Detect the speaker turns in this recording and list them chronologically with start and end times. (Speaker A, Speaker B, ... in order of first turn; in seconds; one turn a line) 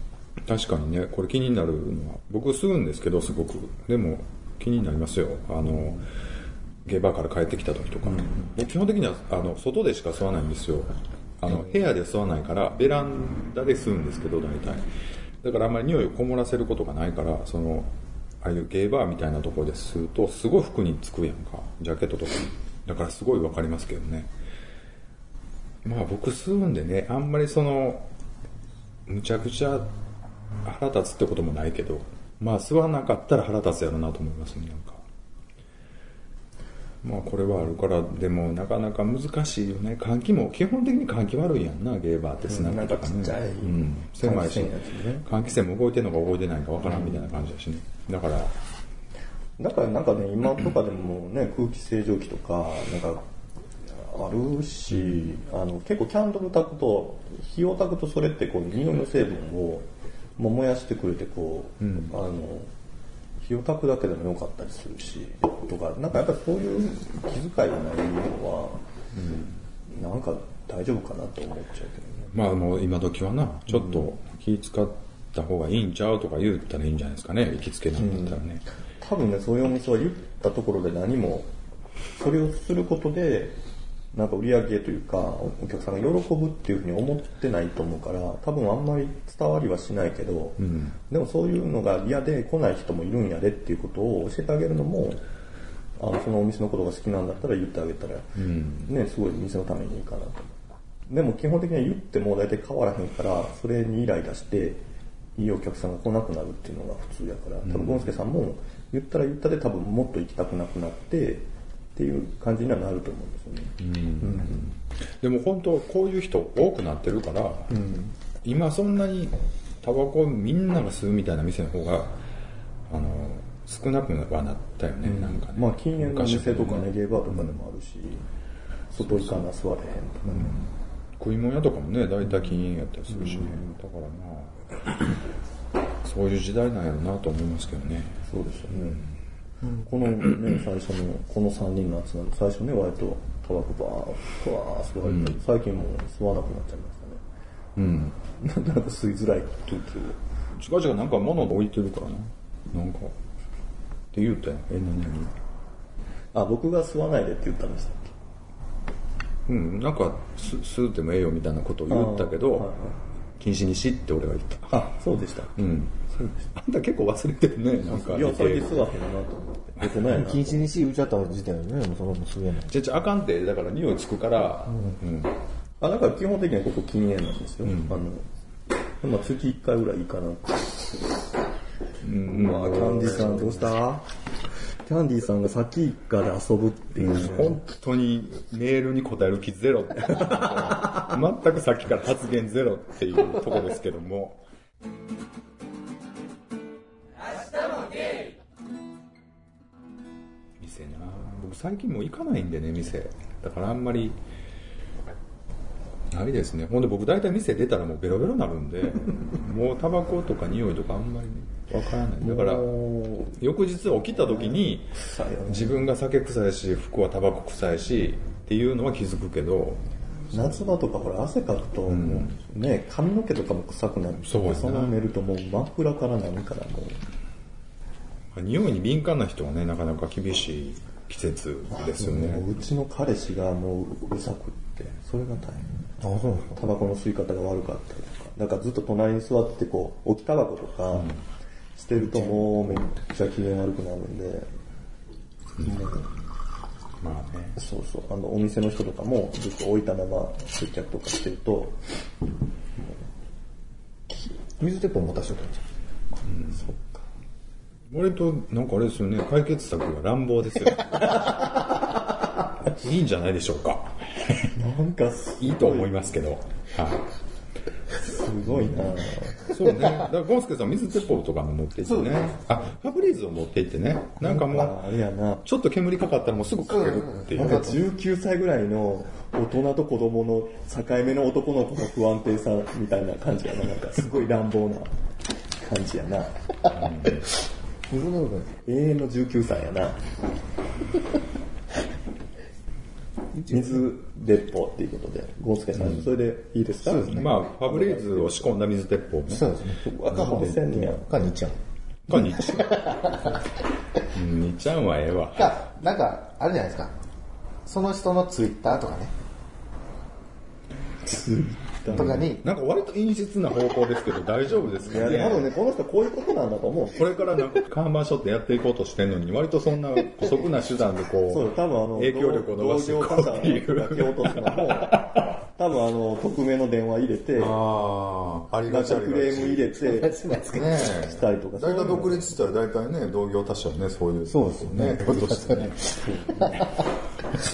Speaker A: 0.4-6.1
Speaker A: 6.8-14.9
Speaker A: 15.4-24.3
Speaker A: 25.8-28.1
Speaker A: 29.1-29.9
Speaker A: 30.6-35.0
Speaker A: 37.0-48.6
Speaker B: 42.5-45.3
Speaker B: 46.8-47.3
Speaker B: 49.6-53.2
Speaker B: 53.9-62.7
Speaker A: 55.0-55.2
Speaker A: 61.8-62.1
Speaker B: 63.4-68.8
Speaker A: 69.1-69.5
Speaker B: 69.9-72.3
Speaker A: 72.3-78.6
Speaker B: 78.0-78.4
Speaker B: 79.0-81.5
Speaker B: 82.2-83.6
Speaker B: 84.1-95.2
Speaker A: 90.6-91.0
Speaker B: 96.0-104.8
Speaker A: 98.4-98.9
Speaker B: 105.4-114.6
Speaker A: 107.7-108.1
Speaker A: 113.8-117.8
Speaker B: 117.7-118.1
Speaker A: 118.4-122.2
Speaker A: 122.9-127.5
Speaker B: 125.0-128.3
Speaker B: 128.9-130.6
Speaker A: 129.0-129.4
Speaker A: 130.3-130.7
Speaker A: 131.2-134.6
Speaker B: 133.2-133.6
Speaker A: 136.0-138.2
Speaker B: 138.3-139.1
Speaker B: 139.8-147.2
Speaker A: 145.1-145.3
Speaker A: 147.8-148.2
Speaker B: 148.4-150.2
Speaker A: 150.6-153.2
Speaker A: 154.1-155.3
Speaker B: 156.3-158.1
Speaker A: 159.5-162.7
Speaker B: 161.9-163.0
Speaker A: 163.4-164.9
Speaker B: 164.7-165.6
Speaker A: 165.6-168.9
Speaker B: 166.2-166.5
Speaker B: 167.9-170.6
Speaker C: 170.1-172.8
Speaker A: 172.7-175.3
Speaker B: 175.8-178.3
Speaker A: 177.6-178.0
Speaker B: 179.0-181.0
Speaker A: 182.0-183.8
Speaker B: 182.2-184.1
Speaker B: 184.8-187.6
Speaker A: 187.0-194.4
Speaker B: 190.1-190.6
Speaker A: 200.6-204.2
Speaker A: 206.1-219.8
Speaker B: 211.7-213.4
Speaker B: 214.1-215.9
Speaker B: 220.3-227.0
Speaker A: 221.9-222.4
Speaker A: 224.2-225.0
Speaker A: 228.3-232.5
Speaker B: 231.8-235.9
Speaker C: 236.0-236.6
Speaker B: 236.6-241.1
Speaker B: 241.8-244.5
Speaker B: 245.6-246.1
Speaker A: 247.0-247.6
Speaker B: 247.6-251.8
Speaker B: 252.8-253.0
Speaker C: 254.1-255.7
Speaker A: 256.3-256.6
Speaker B: 256.5-257.0
Speaker A: 257.9-261.6
Speaker A: 262.6-264.6
Speaker B: 264.6-266.0
Speaker A: 265.4-267.1
Speaker B: 268.0-269.6
Speaker A: 268.5-268.8
Speaker A: 269.4-274.8
Speaker B: 274.2-275.4
Speaker A: 275.4-277.8
Speaker C: 276.7-277.8
Speaker B: 277.4-284.9
Speaker B: 285.6-286.4
Speaker A: 286.7-287.3
Speaker C: 287.9-288.6
Speaker B: 288.6-290.0
Speaker B: 293.5-298.5
Speaker A: 295.8-296.1
Speaker C: 296.8-297.2
Speaker A: 297.0-299.5
Speaker C: 299.3-301.6
Speaker B: 299.8-301.1
Speaker A: 300.1-300.6
Speaker A: 302.1-302.9
Speaker C: 302.2-303.4
Speaker A: 304.1-305.6
Speaker C: 305.4-306.9
Speaker C: 307.7-309.1
Speaker B: 311.0-312.3
Speaker C: 311.9-312.4
Speaker A: 311.9-315.5
Speaker B: 314.8-317.5
Speaker A: 316.9-325.2
Speaker B: 321.3-327.6
Speaker A: 327.4-329.9
Speaker B: 328.7-330.2
Speaker C: 330.0-330.8
Speaker A: 330.5-335.9
Speaker B: 330.8-332.3
Speaker C: 334.3-336.9
Speaker B: 336.0-336.7